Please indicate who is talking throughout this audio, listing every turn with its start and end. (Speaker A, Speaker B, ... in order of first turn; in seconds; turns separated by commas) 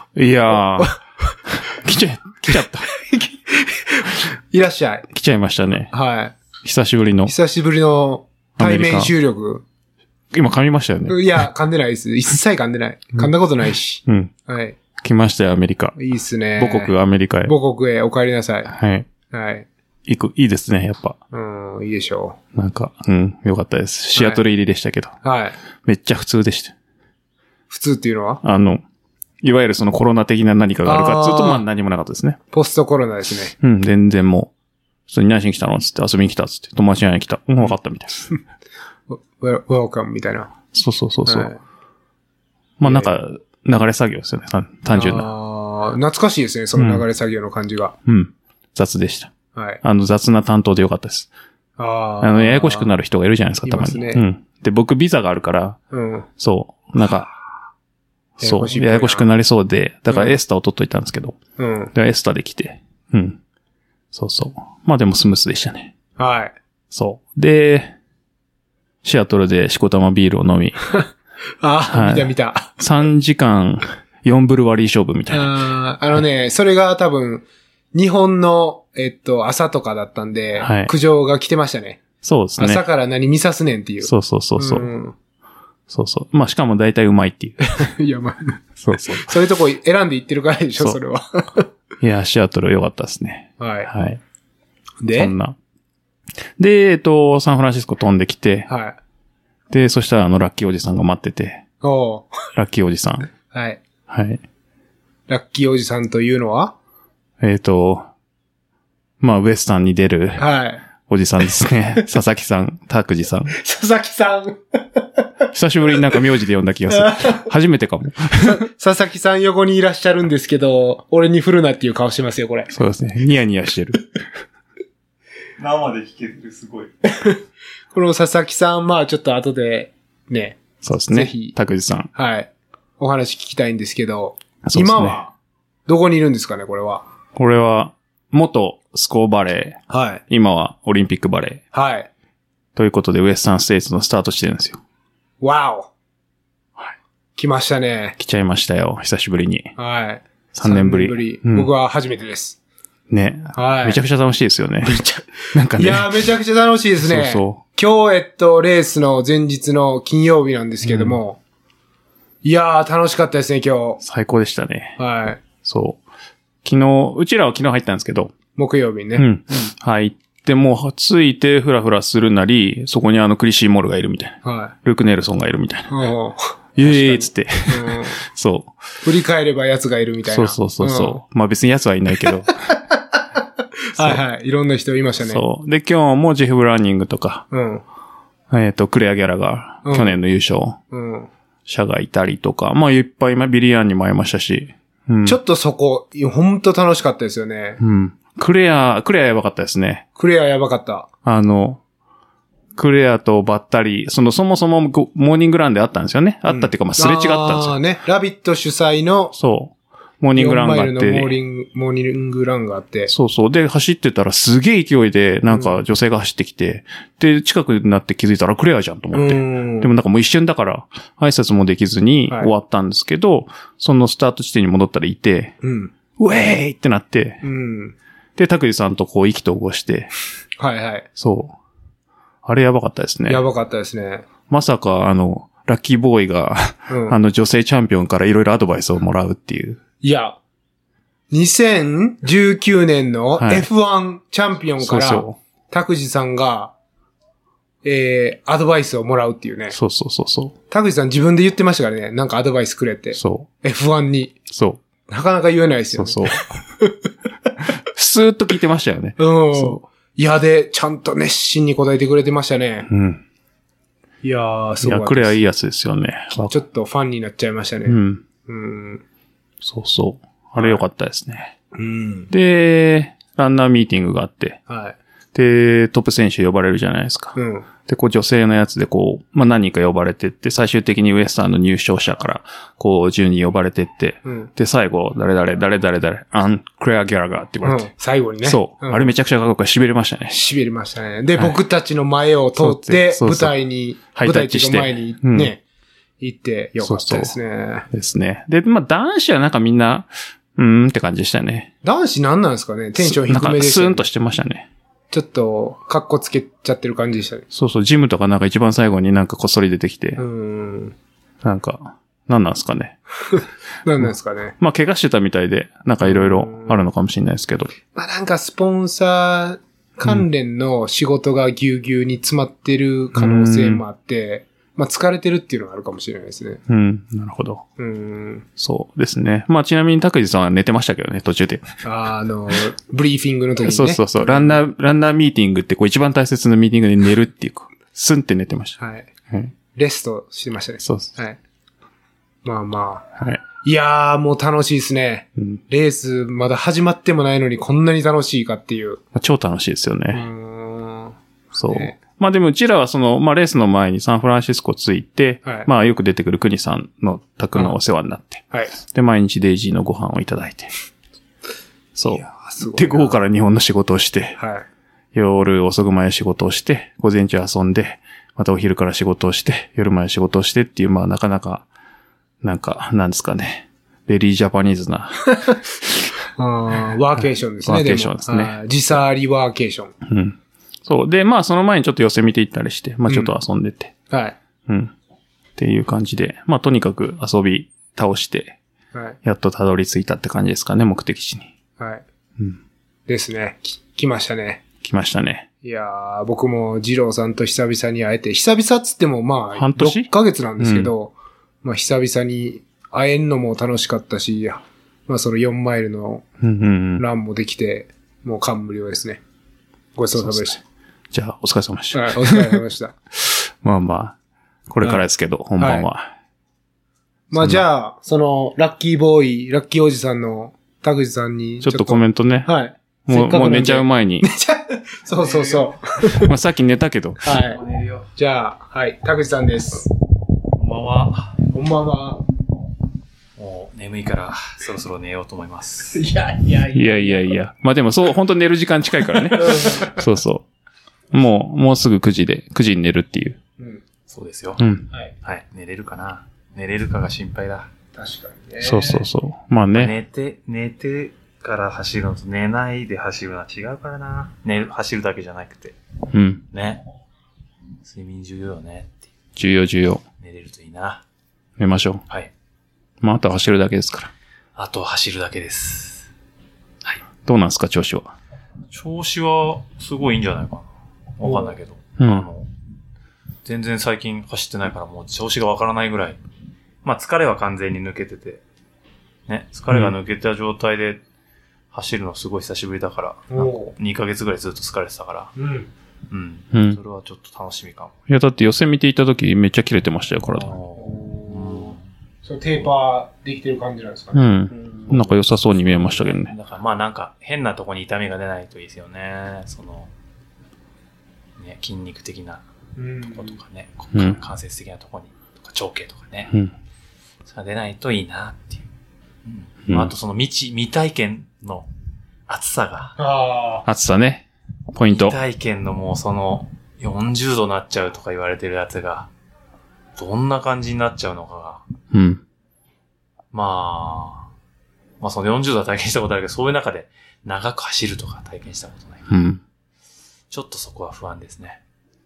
Speaker A: 0.1-2.9, Speaker B: 0.5-1.0, Speaker B: 2.5-5.1, Speaker A: 5.1-5.9, Speaker B: 5.9-6.3, Speaker A: 6.6-7.3, Speaker B: 7.2-9.6, Speaker A: 8.6-9.1, Speaker A: 10.3-11.2, Speaker B: 11.1-14.8, Speaker A: 14.1-14.3, Speaker A: 15.0-15.9, Speaker B: 15.9-18.7, Speaker A: 16.6-17.5, Speaker A: 18.7-19.1, Speaker B: 19.3-19.7, Speaker A: 20.1-21.2, Speaker B: 21.3-22.4, Speaker A: 22.5-25.1, Speaker B: 24.1-24.4, Speaker B: 25.2-25.6, Speaker A: 25.8-26.7, Speaker B: 27.7-28.4, Speaker A: 28.4-28.8, Speaker A: 29.4-32.4, Speaker B: 30.8-31.6, Speaker B: 32.5-33.5, Speaker A: 33.6-34.5, Speaker A: 35.1-38.3, Speaker B: 39.1-40.5, Speaker A: 40.7-41.5, Speaker B: 41.2-41.6, Speaker A: 42.8-45.3, Speaker B: 42.8-43.1, Speaker B: 44.9-47.9, Speaker A: 46.7-47.0, Speaker A: 48.0-51.3, Speaker B: 49.5-49.8, Speaker B: 51.8-52.9, Speaker A: 52.2-55.8, Speaker B: 53.6-54.2, Speaker B: 55.9-56.3, Speaker A: 56.4-57.3, Speaker A: 58.4-61.4, Speaker B: 58.4-59.3, Speaker B: 60.1-60.4, Speaker B: 61.6-61.9, Speaker A: 61.9-63.4, Speaker A: 64.1-65.9, Speaker B: 66.2-66.5, Speaker A: 66.9-67.9, Speaker A: 69.0-71.0, Speaker B: 71.6-72.8, Speaker A: 71.9-75.6, Speaker B: 75.3-82.0, Speaker A: 80.6-80.9, Speaker A: 82.2-82.8, Speaker B: 82.5-85.1, Speaker A: 84.0-84.9, Speaker A: 85.9-87.7, Speaker B: 87.6-88.6, Speaker A: 88.8-89.3, Speaker B: 89.1-91.7, Speaker A: 92.0-94.2, Speaker B: 93.6-93.9, Speaker B: 95.0-95.3, Speaker A: 95.1-95.5, Speaker A: 96.6-98.7, Speaker B: 98.7-99.0, Speaker A: 99.7-101.6, Speaker B: 101.8-102.3, Speaker A: 102.5-103.3, Speaker B: 103.5-103.8, Speaker A: 104.1-104.4, Speaker B: 105.3-106.7, Speaker A: 107.4-108.0, Speaker A: 109.2-110.5, Speaker B: 110.4-110.8, Speaker A: 111.1-113.5, Speaker B: 113.5-115.0, Speaker A: 115.5-118.6, Speaker B: 116.9-117.5, Speaker B: 118.4-122.7, Speaker A: 122.7-124.0, Speaker C: 125.6-126.9, Speaker B: 127.0-127.4, Speaker B: 127.9-131.6, Speaker A: 130.8-132.1, Speaker B: 132.1-135.3, Speaker A: 134.6-135.2, Speaker B: 135.9-137.0, Speaker A: 137.3-141.6, Speaker B: 139.9-140.2, Speaker B: 141.7-142.1, Speaker A: 142.8-144.8, Speaker B: 145.4-145.9, Speaker B: 147.3-148.2, Speaker A: 148.2-149.7, Speaker B: 149.8-152.6, Speaker A: 150.6-151.7, Speaker A: 153.1-156.2, Speaker B: 153.5-154.0, Speaker B: 154.8-161.4, Speaker A: 157.0-157.6, Speaker A: 160.8-161.2, Speaker B: 162.4-164.0, Speaker A: 164.0-165.0, Speaker B: 165.0-165.4, Speaker A: 165.6-166.0, Speaker A: 166.6-168.3, Speaker B: 168.6-169.3, Speaker A: 169.2-175.9, Speaker B: 174.4-174.7, Speaker B: 175.9-178.2, Speaker A: 176.8-178.7, Speaker B: 179.0-181.2, Speaker A: 180.2-182.6, Speaker B: 182.2-183.4, Speaker B: 183.9-185.4, Speaker A: 184.0-184.2, Speaker A: 185.2-187.4, Speaker B: 187.5-187.8, Speaker A: 188.5-190.8, Speaker B: 189.8-190.2, Speaker B: 190.9-191.3, Speaker A: 191.7-195.4, Speaker B: 195.2-197.8, Speaker A: 197.8-200.0, Speaker B: 200.1-201.1, Speaker A: 201.2-201.8, Speaker A: 202.8-207.8, Speaker B: 206.5-209.3, Speaker A: 209.3-211.3, Speaker B: 210.3-213.1, Speaker A: 213.1-225.5, Speaker B: 215.5-215.8, Speaker B: 219.1-219.9, Speaker B: 225.6-225.9, Speaker A: 226.2-227.4, Speaker B: 227.4-227.9, Speaker A: 228.3-230.1, Speaker B: 230.6-231.0, Speaker A: 231.2-231.6, Speaker A: 232.4-233.4, Speaker B: 233.3-234.3, Speaker A: 234.5-239.8, Speaker B: 236.9-237.2, Speaker B: 240.0-240.4, Speaker B: 241.3-246.7, Speaker A: 243.4-243.7, Speaker A: 244.8-245.4, Speaker B: 247.8-249.8, Speaker A: 249.7-250.5, Speaker B: 250.7-254.3, Speaker A: 253.1-253.5, Speaker A: 254.5-254.8, Speaker B: 255.1-257.1, Speaker A: 255.9-256.5, Speaker A: 257.9-259.8, Speaker B: 259.2-262.9, Speaker A: 262.9-263.2, Speaker B: 264.2-265.4, Speaker A: 264.8-266.6, Speaker B: 266.4-269.0, Speaker A: 267.9-268.2, Speaker A: 269.6-271.5, Speaker B: 271.7-272.3, Speaker A: 272.3-274.6, Speaker B: 274.7-275.0, Speaker A: 275.3-287.9, Speaker B: 277.3-277.7, Speaker B: 284.2-284.5, Speaker B: 287.6-289.1, Speaker A: 288.4-290.3, Speaker B: 290.3-295.6, Speaker A: 292.6-293.5, Speaker A: 294.1-295.5, Speaker B: 296.2-297.9, Speaker A: 296.8-297.3, Speaker A: 297.9-301.7, Speaker B: 301.8-304.0, Speaker A: 303.0-304.7, Speaker B: 305.1-307.4, Speaker A: 307.5-310.2, Speaker B: 310.2-310.9, Speaker A: 311.4-313.0, Speaker B: 313.3-314.6, Speaker A: 314.0-317.7, Speaker B: 316.0-316.9, Speaker B: 317.9-326.6, Speaker A: 323.1-323.8, Speaker A: 326.7-327.6, Speaker B: 327.8-328.4, Speaker A: 328.6-331.7, Speaker B: 331.8-334.6, Speaker A: 333.6-338.8, Speaker B: 338.8-339.1, Speaker B: 339.7-341.4, Speaker A: 340.8-341.1, Speaker B: 342.4-349.0, Speaker A: 349.1-350.2, Speaker B: 350.1-352.0, Speaker A: 351.5-360.7, Speaker A: 361.9-364.4, Speaker B: 362.1-363.2, Speaker B: 364.4-364.6, Speaker A: 365.1-371.7, Speaker A: 372.4-375.3, Speaker B: 376.4-379.9, Speaker A: 377.6-378.6, Speaker A: 380.0-383.9, Speaker B: 383.1-383.3, Speaker B: 384.1-384.4, Speaker A: 384.7-384.9, Speaker A: 385.6-388.6, Speaker B: 388.9-389.2, Speaker A: 389.2-391.5, Speaker B: 391.8-392.0, Speaker B: 393.1-394.6, Speaker A: 394.8-395.5, Speaker B: 395.6-406.2, Speaker A: 399.5-400.9, Speaker A: 406.4-407.0, Speaker B: 407.0-409.2, Speaker B: 409.9-410.6, Speaker A: 410.2-410.6, Speaker A: 411.1-412.6, Speaker B: 411.9-412.9, Speaker A: 413.2-414.1, Speaker A: 414.7-416.1, Speaker B: 415.6-415.9, Speaker B: 417.3-426.3, Speaker A: 417.3-417.6, Speaker A: 421.6-422.5, Speaker A: 423.1-424.2, Speaker C: 425.2-425.8, Speaker A: 426.1-427.4, Speaker B: 427.2-427.6, Speaker C: 427.3-428.1, Speaker B: 428.1-429.9, Speaker C: 430.6-431.4, Speaker B: 431.5-432.2, Speaker C: 433.4-436.0, Speaker B: 435.9-437.3, Speaker A: 436.7-440.4, Speaker B: 439.3-440.0, Speaker A: 441.1-443.4, Speaker B: 443.6-443.8, Speaker C: 444.1-444.6, Speaker A: 444.6-444.9, Speaker C: 445.2-447.7, Speaker B: 447.9-449.1, Speaker A: 448.6-449.9, Speaker C: 449.7-455.8, Speaker A: 456.1-456.4, Speaker C: 456.5-456.8, Speaker C: 457.8-458.9, Speaker A: 459.4-460.0, Speaker C: 460.2-461.0, Speaker A: 461.6-462.0, Speaker A: 463.0-464.1, Speaker C: 464.6-466.1, Speaker A: 467.2-468.1, Speaker C: 468.7-472.5, Speaker B: 471.2-471.6, Speaker A: 472.0-472.3, Speaker C: 473.4-476.2, Speaker C: 476.8-478.4, Speaker C: 479.3-481.0, Speaker C: 481.7-485.3, Speaker B: 483.3-483.7, Speaker B: 485.4-485.7, Speaker C: 486.1-487.9, Speaker A: 486.5-486.8, Speaker A: 488.1-490.6, Speaker C: 490.3-491.8, Speaker B: 490.8-495.1, Speaker A: 494.1-496.3, Speaker C: 494.9-499.9, Speaker C: 501.4-502.4, Speaker B: 502.8-503.4, Speaker C: 503.1-506.3, Speaker A: 503.9-504.2, Speaker C: 507.2-508.7, Speaker C: 509.2-511.7, Speaker C: 512.3-513.0, Speaker B: 513.0-513.6, Speaker A: 513.7-515.2, Speaker C: 514.9-519.1, Speaker C: 520.0-521.6, Speaker A: 521.9-522.2, Speaker C: 523.3-524.3, Speaker C: 525.0-529.1, Speaker A: 529.1-529.4, Speaker C: 530.3-531.6